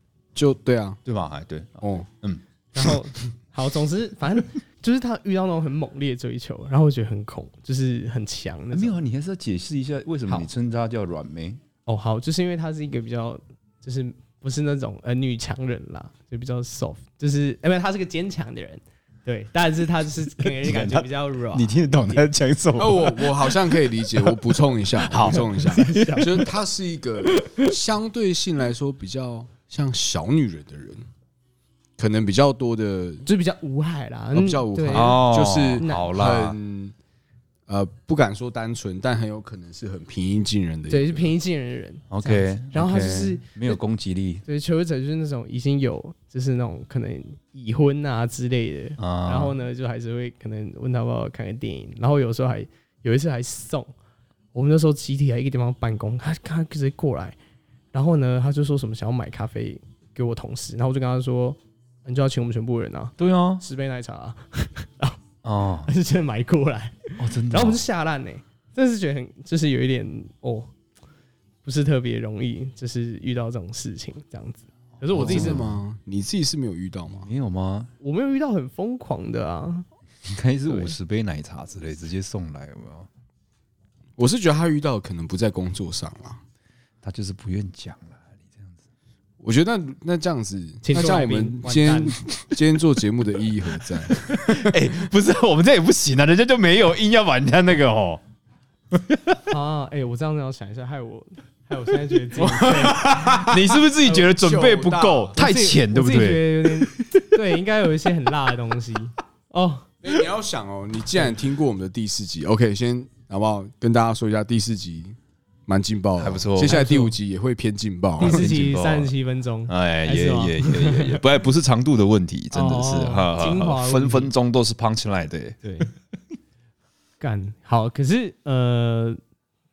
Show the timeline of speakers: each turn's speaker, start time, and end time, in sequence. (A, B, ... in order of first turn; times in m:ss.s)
0:00.4-0:01.0 A
0:01.0-0:03.0 B
0:01.8-0:02.1 A
0:02.7-0:09.0 C
0:08.7-0:11.6 B
0:11.9-0:22.3 C
0:20.6-0:26.5 B
0:22.8-0:31.0 A
0:25.2-0:26.5 C
0:27.2-0:27.7 C
0:32.0-0:33.3 A
0:33.3-0:35.2 C
0:34.3-0:37.0 A
0:34.9-0:36.6 B
0:35.8-0:36.2 C
0:37.7-0:41.3 A
0:40.9-0:43.8 C
0:42.1-0:44.4 B
0:44.5-0:53.9 C
0:49.0-0:49.6 B
0:54.5-0:57.4 C
0:57.9-1:05.2 C
1:03.2-1:03.6 B
1:05.4-1:05.9 B
1:05.8-1:10.7 C
1:07.2-1:07.8 B
1:11.6-1:15.6 C
1:15.1-1:15.7 B
1:15.2-1:17.3 A
1:17.2-1:17.9 B
1:18.0-1:19.9 C
1:20.2-1:23.1 B
1:20.7-1:21.0 C
1:24.2-1:26.4 A
1:27.0-1:28.8 B
1:29.4-1:34.8 A
1:30.8-1:32.2 C
1:34.1-1:38.2 B
1:38.9-1:39.4 B
1:39.5-1:43.4 C
1:42.4-1:45.4 A
1:43.4-1:47.2 B
1:45.3-1:49.9 C
1:50.0-1:58.4 A
1:56.2-1:56.8 B
1:56.6-1:57.2 C
1:58.2-1:59.1 B
1:58.2-2:01.2 C
1:59.7-2:05.6 B
2:02.5-2:04.3 C
2:05.6-2:05.9 C
2:07.2-2:09.2 C